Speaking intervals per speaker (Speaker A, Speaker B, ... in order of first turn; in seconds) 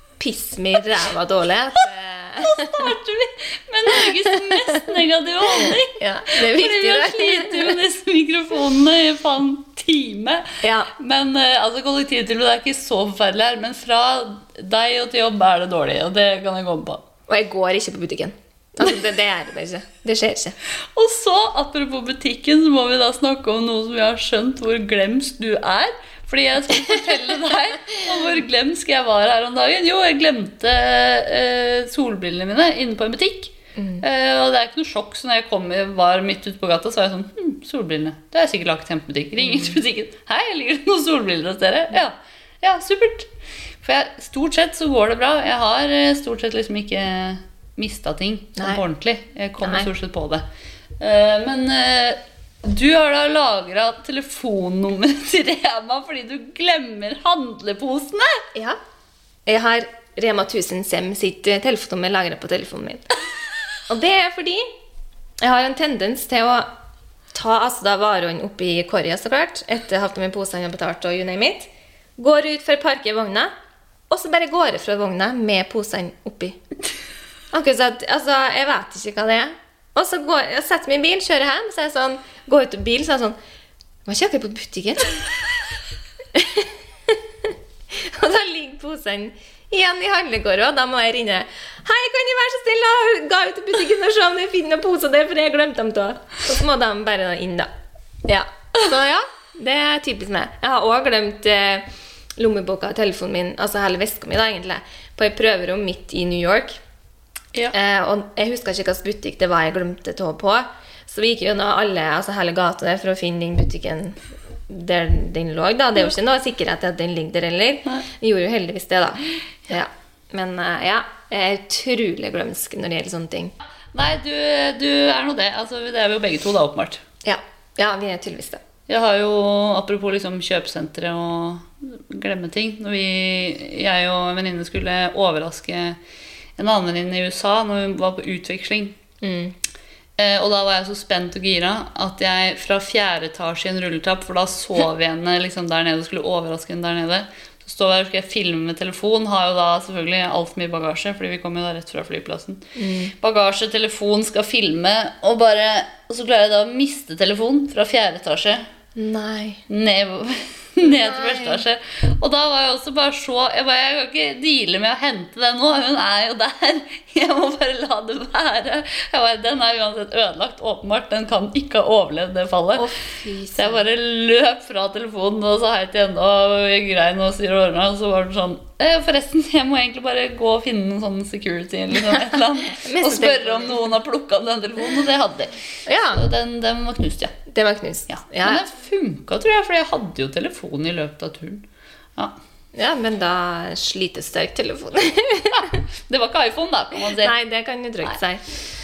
Speaker A: 0.2-2.9, 5.5-7.8, 10.6-10.9, 17.3-20.6, 33.8-34.0, 39.5-39.8, 49.6-49.9, 59.5-63.1, 63.9-64.7, 65.4-66.7, 67.3-73.5, 74.1-76.6, 77.5-83.4, 84.0-85.3, 86.3-97.7, 98.2-101.9, 102.4-106.8, 107.7-123.5, 127.2-128.6, 139.2-139.6, 152.8-153.1, 159.0-159.6, 160.8-161.6, 172.8-173.8, 182.1-183.8, 185.9-186.2, 187.5-188.6, 192.8-195.8, 197.1-198.4
Speaker B: 2.4-17.0, 20.9-43.3, 43.8-50.4, 51.0-58.5, 123.9-127.0, 128.9-136.0, 136.6-139.0, 140.2-158.7, 159.7-172.9, 173.6-187.4, 188.1-191.7, 195.6-197.3